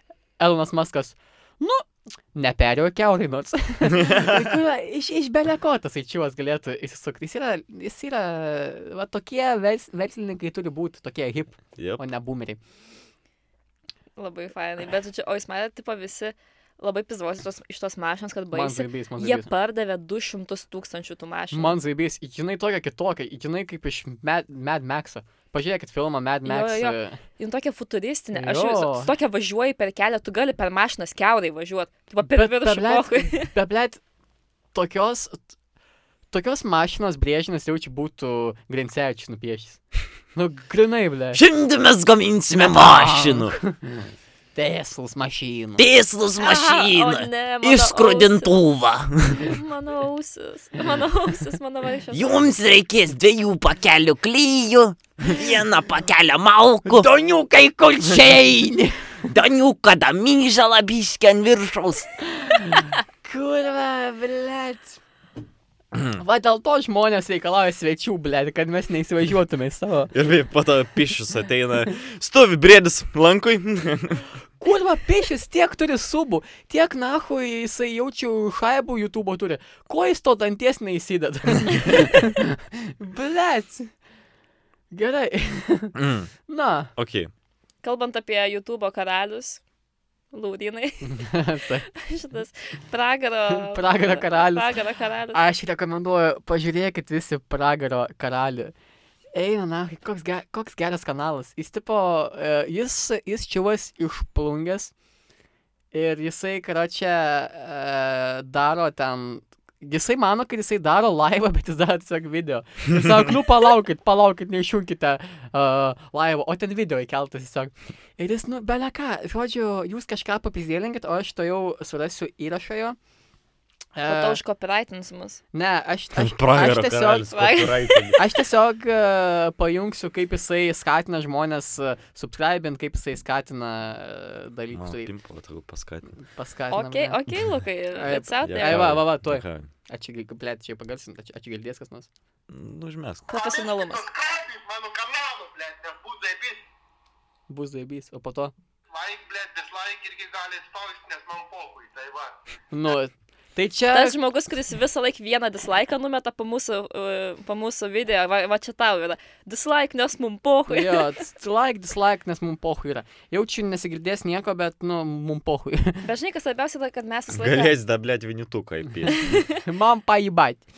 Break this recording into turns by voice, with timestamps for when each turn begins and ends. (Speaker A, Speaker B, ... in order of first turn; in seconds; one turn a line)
Speaker A: 0.4-12.6
Speaker B: 4.0-4.4
Speaker B: 11.8-12.0
Speaker C: 14.2-21.8
Speaker A: 18.5-19.5
Speaker A: 21.5-27.2
Speaker C: 26.4-33.5
Speaker A: 28.3-29.1
Speaker A: 32.2-34.0
Speaker A: 34.7-35.4
Speaker A: 36.3-39.8
Speaker A: 40.3-41.4
Speaker D: 41.3-42.4
Speaker B: 41.3-43.5
Speaker A: 42.5-45.9
Speaker D: 45.8-47.1
Speaker B: 46.0-49.4
Speaker C: 46.4-48.5
Speaker D: 47.6-49.1
Speaker C: 49.3-52.5
Speaker D: 52.1-56.9
Speaker B: 52.1-57.0
Speaker A: 56.9-59.2
Speaker D: 59.3-61.8
Speaker B: 59.4-60.0
Speaker B: 60.7-62.0
Speaker A: 62.3-65.0
Speaker A: 66.2-70.1
Speaker B: 70.1-74.3
Speaker A: 74.6-83.9
Speaker A: 84.9-85.9
Speaker B: 85.9-86.3
Speaker A: 86.5-86.9
Speaker B: 87.0-87.3
Speaker C: 87.8-89.6
Speaker C: 90.3-91.3
Speaker A: 91.0-91.9
Speaker C: 91.9-95.4
Speaker A: 93.5-94.7
Speaker A: 95.3-98.7
Speaker A: 99.3-104.9
Speaker A: 105.9-123.0
Speaker A: 123.9-124.4
Speaker C: 124.1-125.4
Speaker A: 125.5-127.6
Speaker B: 126.1-128.2
Speaker C: 127.3-128.3
Speaker A: 128.2-135.1
Speaker B: 134.7-136.1
Speaker A: 136.2-137.2
Speaker C: 136.7-139.0
Speaker A: 137.9-142.1
Speaker B: 138.4-139.7
Speaker B: 142.5-143.2
Speaker C: 143.3-144.1
Speaker E: 143.3-146.7
Speaker A: 147.5-148.5
Speaker E: 148.9-152.3
Speaker A: 152.7-154.2
Speaker C: 153.9-161.1
Speaker A: 160.7-166.1
Speaker C: 166.0-167.7
Speaker B: 167.3-169.3
Speaker C: 169.1-169.6
Speaker A: 169.6-170.6